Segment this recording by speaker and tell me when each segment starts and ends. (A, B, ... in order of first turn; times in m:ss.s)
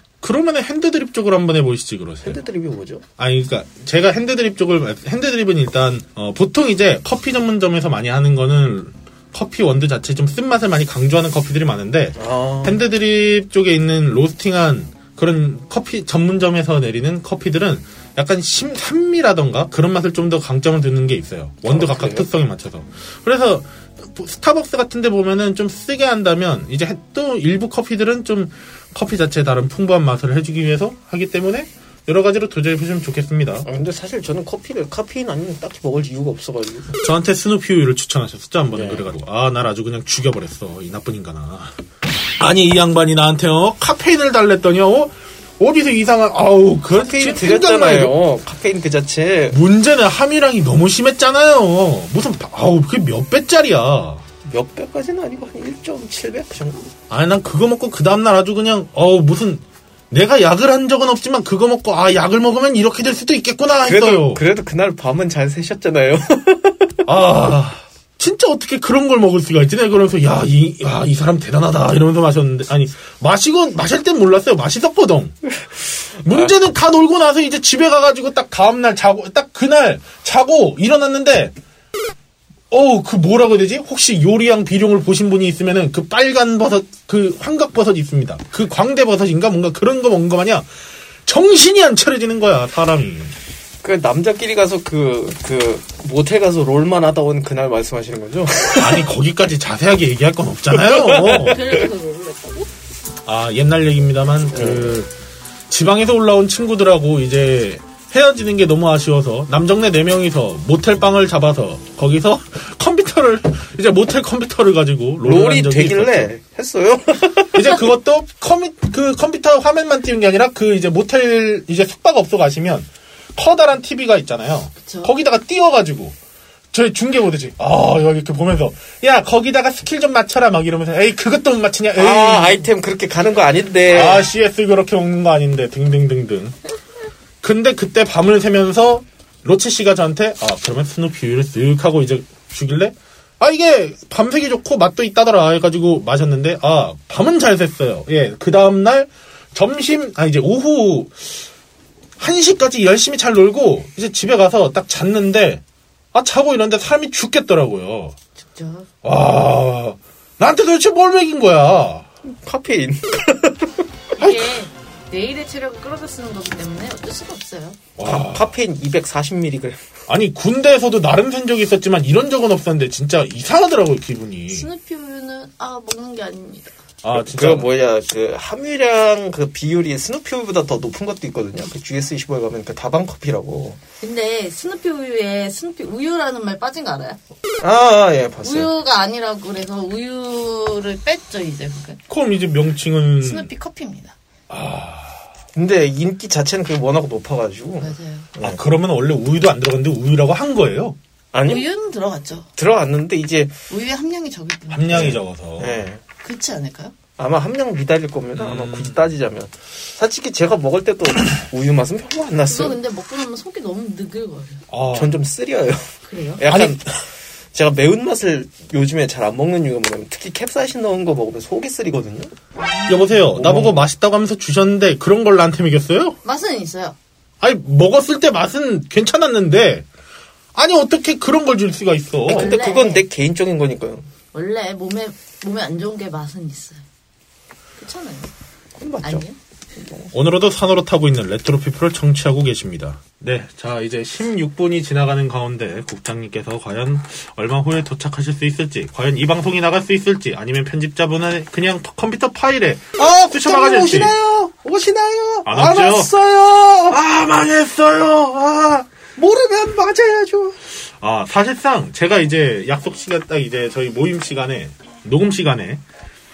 0:00.2-0:02.4 A
0:02.2-0:03.0 B
0:03.2-0:33.7 A
0:12.2-0:12.8 B
0:21.7-0:22.3 B
0:33.6-0:37.0 B
0:37.0-0:41.8 A
0:38.7-0:39.1 B
0:42.4-0:48.2 A
0:46.9-0:49.6 B
0:49.5-0:54.2 A
0:54.4-0:56.8 B
0:57.1-1:04.4 A
1:03.8-1:07.0 B
1:07.1-1:15.4 A
1:16.2-1:21.6 A
1:16.2-1:16.5 B
1:22.7-1:30.7 A
1:31.2-1:33.4 A
1:33.8-1:39.1 B
1:38.8-1:41.6 A
1:40.8-1:41.6 B
1:41.2-1:42.7 C
1:43.3-1:45.1 A
1:44.5-1:45.0 B
1:45.7-1:56.3 A
1:55.2-1:57.8 B
1:57.5-2:06.2 A
2:04.8-2:05.1 C
2:06.7-2:12.6 A
2:12.0-2:14.3 B
2:13.9-2:16.6 A
2:17.4-2:31.5 A
2:32.2-2:35.6 A
2:36.1-2:38.2 A
2:38.4-2:38.9 C
2:39.0-2:42.1 A
2:42.2-2:43.9 B
2:44.2-2:47.8 C
2:48.0-2:48.5 A
2:48.1-2:49.8 B
2:50.1-2:54.7 A
2:54.5-2:56.7 C
2:57.0-2:57.7 A
2:57.2-3:03.8 B
3:04.0-3:07.2 C
3:07.6-3:08.7 B
3:08.4-3:12.0 C
3:12.1-3:13.5 A
3:13.2-3:14.1 C
3:14.5-3:15.3 A
3:15.6-3:18.6 B
3:17.8-3:18.3 C
3:18.4-3:21.0 A
3:21.3-3:21.7 B
3:21.5-3:22.5 C
3:22.6-3:23.6 B
3:23.7-3:25.1 C
3:24.7-3:25.9 A
3:24.9-3:26.0 B
3:26.2-3:26.9 C
3:27.2-3:32.8 B
3:28.4-3:29.1 A
3:32.5-3:34.6 C
3:34.7-3:35.2 A
3:34.9-3:42.3 B
3:36.1-3:36.4 C
3:36.5-3:36.8 A
3:42.6-3:43.2 C
3:42.9-3:46.2 A
3:43.3-3:43.8 B
3:46.2-3:47.0 C
3:47.4-3:49.9 A
3:50.5-3:52.6 A
3:52.3-3:54.1 B
3:52.3-3:53.1 C
3:54.3-3:56.8 C
3:57.8-3:58.3 C
3:58.8-4:00.1 B
3:59.0-3:59.4 C
4:00.1-4:14.2 A
4:13.0-4:17.0 B
4:15.4-4:16.1 A
4:16.9-4:18.9 A
4:19.2-4:20.6 B
4:21.0-4:25.8 A